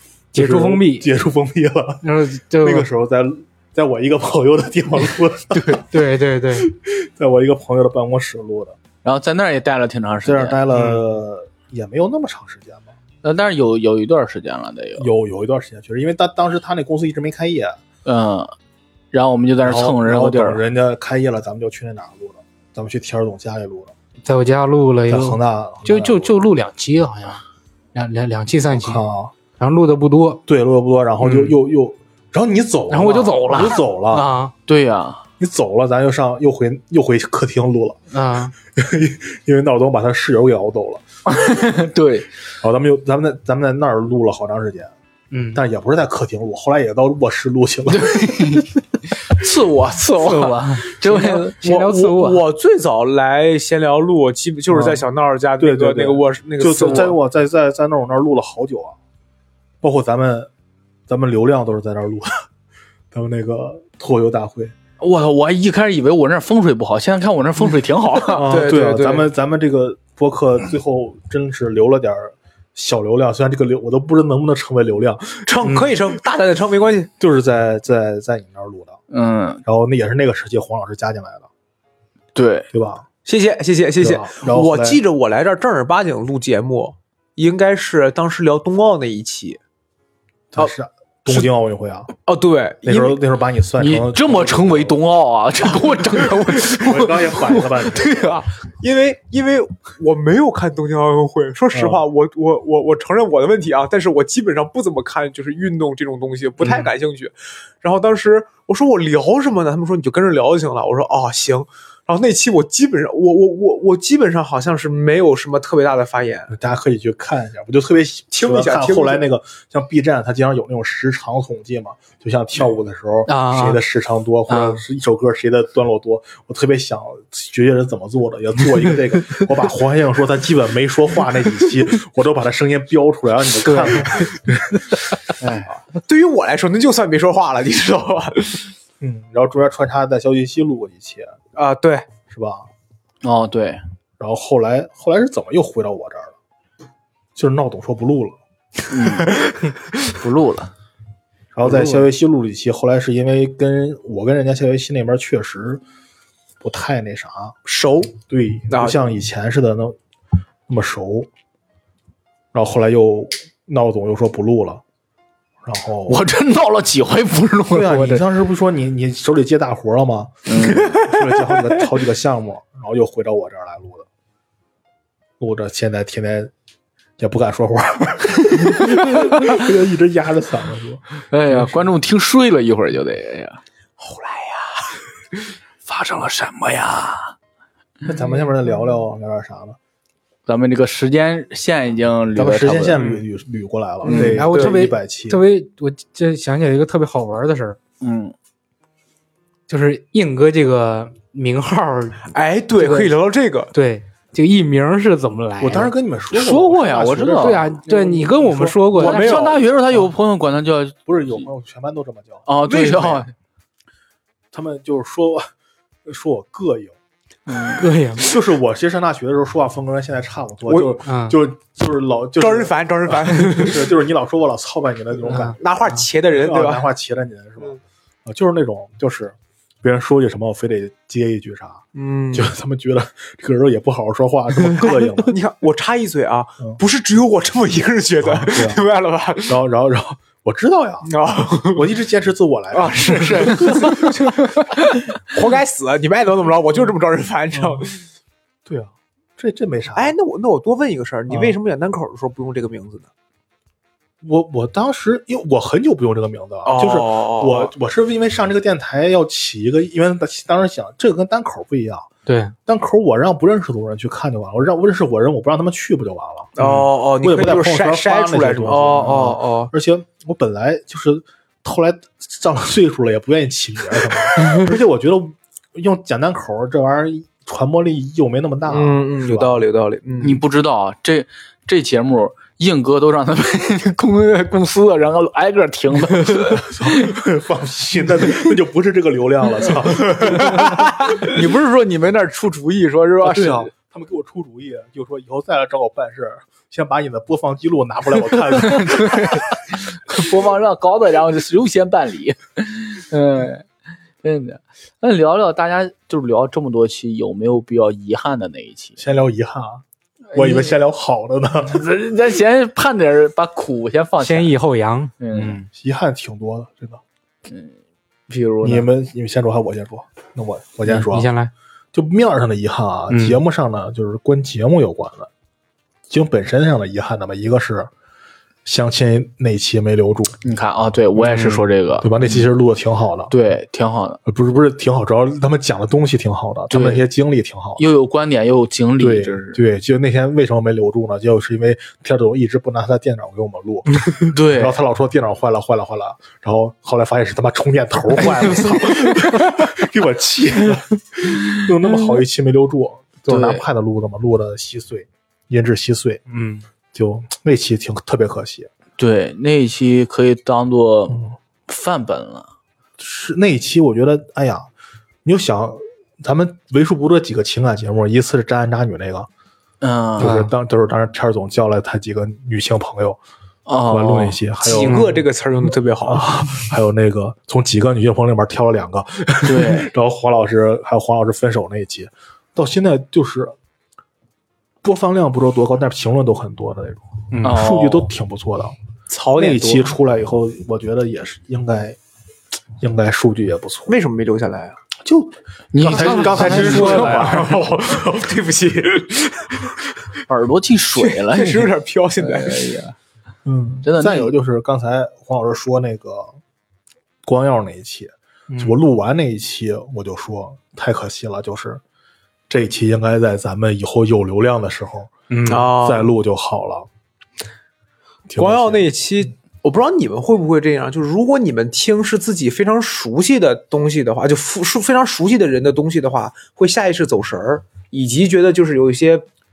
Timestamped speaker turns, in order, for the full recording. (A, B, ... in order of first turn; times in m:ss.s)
0:00.3-0:02.1 A
0:00.4-0:01.1 B
0:02.0-0:02.9 B
0:02.6-0:05.8 A
0:05.9-0:06.7 B
0:06.6-0:08.8 A
0:09.0-0:10.6 C
0:10.2-0:12.9 A
0:13.2-0:15.1 C
0:15.0-0:17.8 A
0:18.0-0:18.5 C
0:19.1-0:20.6 C
0:19.6-0:23.9 A
0:24.2-0:27.4 B
0:25.1-0:26.3 A
0:28.0-0:29.0 B
0:28.7-0:29.3 A
0:29.6-0:30.4 B
0:30.5-0:34.3 A
0:32.9-0:34.5 B
0:34.7-0:35.2 C
0:35.4-0:38.0 A
0:38.1-0:38.5 B
0:38.8-0:41.0 A
0:41.3-0:42.3 C
0:42.6-0:44.9 A
0:45.3-0:45.6 B
0:45.5-0:48.6 A
0:47.9-0:51.5 C
0:50.2-0:52.4 B
0:51.1-0:57.2 D
0:54.7-0:55.0 A
0:55.6-0:59.0 A
0:59.8-1:00.5 A
1:01.1-1:02.4 A
1:03.1-1:04.8 A
1:05.0-1:08.5 C
1:08.3-1:15.9 A
1:08.4-1:09.3 D
1:15.5-1:17.1 D
1:17.2-1:19.0 A
1:19.1-1:19.6 C
1:19.6-1:21.5 A
1:22.4-1:22.7 C
1:22.7-1:23.1 A
1:23.2-1:29.6 D
1:24.0-1:25.0 A
1:30.5-1:32.1 A
1:32.3-1:33.2 D
1:32.8-1:35.0 A
1:33.8-1:38.5 C
1:36.7-1:38.4 A
1:38.8-1:56.5 D
1:41.7-1:42.0 A
1:56.5-2:15.0 A
1:58.3-1:59.2 D
2:03.3-2:03.8 B
2:04.5-2:04.8 B
2:13.9-2:14.3 D
2:15.6-2:18.7 D
2:19.0-2:21.3 A
2:21.6-2:22.1 D
2:22.3-2:22.7 A
2:23.2-2:23.8 C
2:24.2-2:26.4 A
2:27.4-2:28.4 A
2:28.9-2:29.4 C
2:30.0-2:30.7 C
2:31.6-2:35.8 A
2:36.6-2:37.6 A
2:37.6-2:38.2 D
2:38.2-2:40.0 A
2:38.7-2:39.0 D
2:40.7-2:41.3 A
2:42.5-2:44.8 A
2:45.6-2:46.2 A
2:46.1-2:48.2 C
2:47.7-2:54.1 A
2:50.5-2:51.1 C
2:55.4-2:56.5 A
2:57.2-3:01.8 A
2:58.8-2:59.6 C
3:01.3-3:03.6 C
3:04.0-3:05.0 D
3:05.9-3:07.3 C
3:08.0-3:09.8 A
3:10.5-3:13.0 C
3:12.4-3:15.4 A
3:13.0-3:13.2 D
3:14.0-3:14.8 D
3:14.1-3:14.4 C
3:14.1-3:17.8 B
3:18.0-3:18.3 C
3:19.7-3:23.1 B
3:22.3-3:23.7 D
3:23.7-3:25.9 B
3:25.6-3:30.1 A
3:26.3-3:27.7 C
3:27.4-3:29.5 B
3:29.0-3:31.4 C
3:29.0-3:29.5 D
3:31.1-3:32.5 A
3:32.5-3:33.3 C
3:32.6-3:33.3 D
3:34.5-3:35.5 A
3:36.0-3:37.0 A
3:37.5-3:37.8 C
3:37.8-3:38.2 B
3:38.2-3:55.4 A
3:40.7-3:41.0 D
3:41.0-3:41.4 B
3:42.4-3:43.9 D
3:45.3-3:45.6 B
3:45.6-3:46.9 D
3:52.0-3:52.5 D
3:55.2-3:59.6 D
3:58.2-3:58.8 A
3:59.4-4:01.1 A
4:01.0-4:01.9 D
4:01.7-4:04.0 A
4:02.7-4:08.0 D
4:07.5-4:07.9 A
4:08.7-4:10.2 A
4:10.0-4:13.1 D
4:11.3-4:11.6 A
4:14.2-4:22.1 A
4:16.6-4:17.7 D
4:22.3-4:22.6 B
4:22.7-4:26.6 A
4:26.6-4:29.7 D
4:27.2-4:39.6 A
4:38.7-4:40.4 D
4:40.2-4:47.2 C
4:46.5-4:50.8 A
4:50.0-4:51.3 D
4:50.5-4:53.7 C
4:53.2-4:59.5 A
4:58.5-5:03.6 C
5:04.2-5:09.0 C
5:09.0-5:11.9 A
5:10.3-5:10.8 C
5:11.7-5:14.5 C
5:14.2-5:15.7 B
5:15.2-5:15.6 C
5:15.7-5:17.0 A
5:17.5-5:17.8 C
5:18.3-5:18.9 C
5:18.6-5:21.3 A
5:20.9-5:21.5 B
5:21.9-5:25.3 A
5:23.1-5:23.4 B
5:26.1-5:27.9 A
5:28.6-5:30.4 A
5:30.4-5:32.5 C
5:31.2-5:33.3 A
5:33.3-5:34.2 C
5:34.3-5:37.8 A
5:36.7-5:37.0 C
5:37.8-5:39.6 C
5:39.0-5:56.3 A
5:44.3-5:44.8 C
5:53.3-5:53.6 C
5:56.3-5:56.6 B
5:56.9-5:58.7 A
5:59.0-6:02.5 C
6:03.0-6:04.7 A
6:05.2-6:09.3 A
6:09.8-6:10.4 C
6:10.2-6:13.2 A
6:10.2-6:10.5 B
6:13.7-6:14.4 C
6:13.9-6:15.1 A
6:14.6-6:16.4 D
6:14.7-6:15.2 B
6:16.0-6:23.6 A
6:19.4-6:19.9 C
6:24.8-6:28.8 A
6:27.4-6:28.1 C
6:29.1-6:29.9 D
6:29.4-6:32.0 A
6:32.8-6:34.0 A
6:33.9-6:34.8 D
6:35.0-6:37.6 A
6:35.7-6:37.5 C
6:36.0-6:39.8 D
6:40.3-6:43.0 C
6:41.0-6:42.8 D
6:43.4-6:46.4 A
6:43.8-6:44.3 C
6:47.2-6:51.8 A
6:48.5-6:48.8 B
6:52.5-6:56.9 A
6:55.3-6:55.7 B
6:55.5-6:56.1 D
6:58.3-6:58.9 A
6:58.4-7:09.3 D